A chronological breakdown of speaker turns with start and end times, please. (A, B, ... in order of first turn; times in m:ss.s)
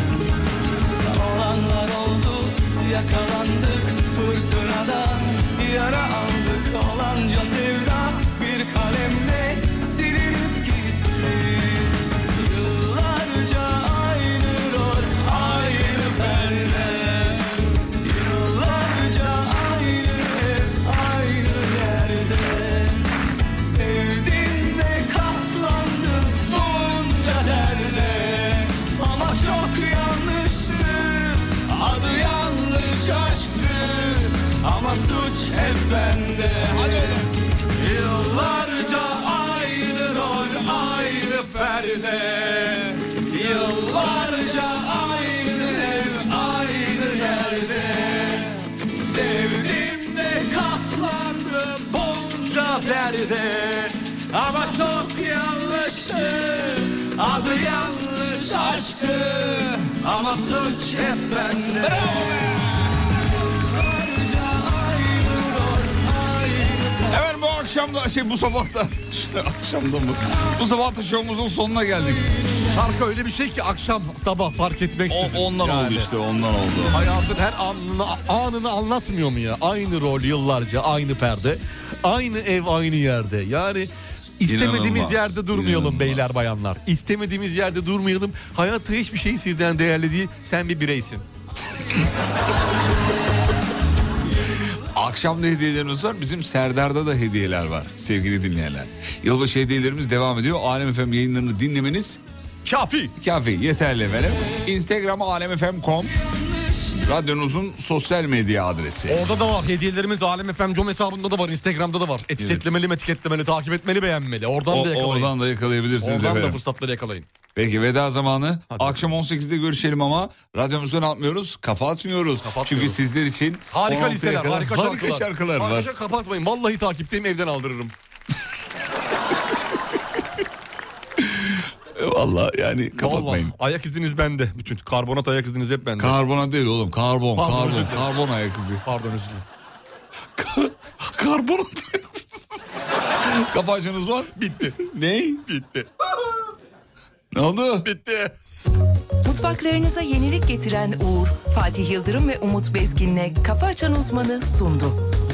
0:01.1-0:23.0 A
0:23.6-0:37.2 A
0:36.7-0:37.3 B
0:37.8-1:02.4 A
1:01.8-1:03.0 B
1:03.7-1:07.0 A
1:07.1-1:12.3 B
1:12.7-1:16.1 C
1:15.1-1:17.0 B
1:16.9-1:31.2 C
1:24.5-1:26.5 B
1:35.0-1:42.2 B
1:42.6-1:43.1 C
1:43.2-1:46.2 B
1:47.0-1:49.4 B
1:49.1-1:55.3 C
1:52.4-1:52.8 B
1:54.7-1:56.6 B
1:56.0-1:57.3 C
1:57.6-2:05.9 B
1:58.7-1:59.1 C
2:02.4-2:03.0 C
2:03.7-2:07.9 C
2:11.2-2:13.5 B
2:13.0-2:16.2 C
2:16.0-2:18.8 B
2:17.4-2:18.1 C
2:18.8-2:19.5 C
2:20.4-2:22.3 B
2:23.2-2:24.3 B
2:24.4-2:25.9 C
2:25.0-2:25.4 B
2:27.3-2:27.9 B
2:27.8-2:28.4 C
2:29.2-2:35.0 D